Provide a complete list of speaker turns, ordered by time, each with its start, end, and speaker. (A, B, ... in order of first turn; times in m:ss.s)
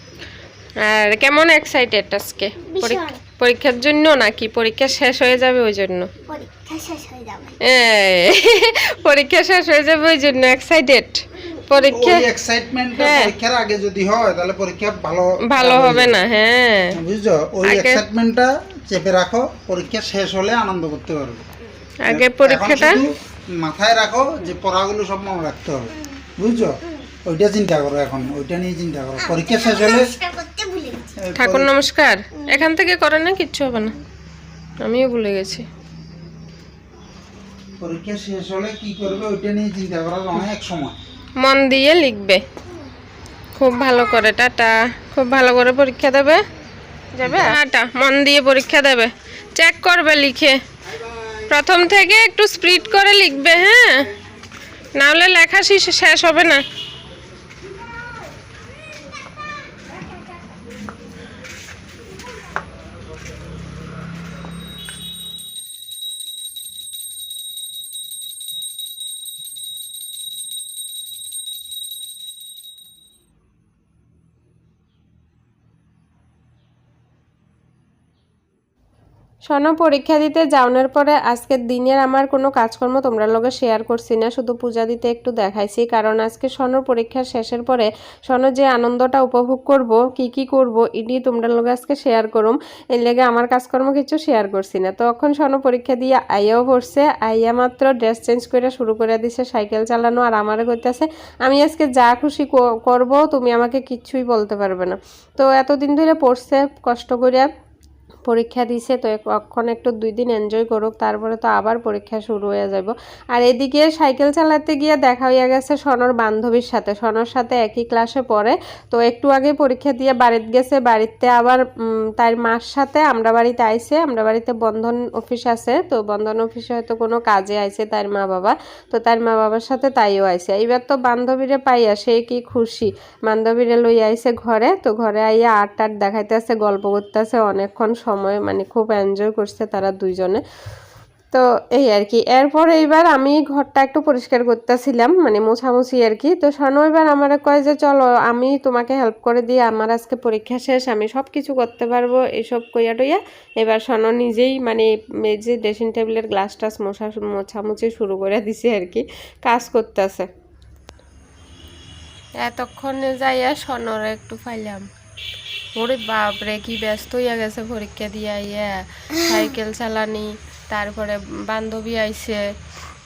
0:00.8-0:06.1 A
0:02.7-0:03.2 B
0:06.3-0:07.6 B
0:07.6-0:12.3 A
0:11.9-0:16.2 C
0:12.9-0:13.4 A
0:15.5-0:17.0 A
0:16.9-0:21.4 C
0:17.6-0:18.0 A
0:22.0-0:23.0 A
0:22.1-0:30.1 C
0:25.9-0:26.3 B
0:26.8-0:27.1 B
0:29.2-0:31.2 B
0:31.2-0:31.7 C
0:31.4-0:34.0 A
0:32.4-0:32.7 B
0:34.8-0:35.6 A
0:37.8-0:41.0 C
0:41.4-0:42.4 A
0:43.6-0:46.4 A
0:47.1-0:50.6 A
0:47.2-0:47.6 C
0:51.5-0:54.1 A
0:55.0-0:56.6 A
1:19.5-1:47.5 A
1:48.3-2:01.6 A
2:02.2-2:20.4 A
2:21.3-2:40.3 A
2:42.4-2:44.9 A
2:45.8-2:52.5 A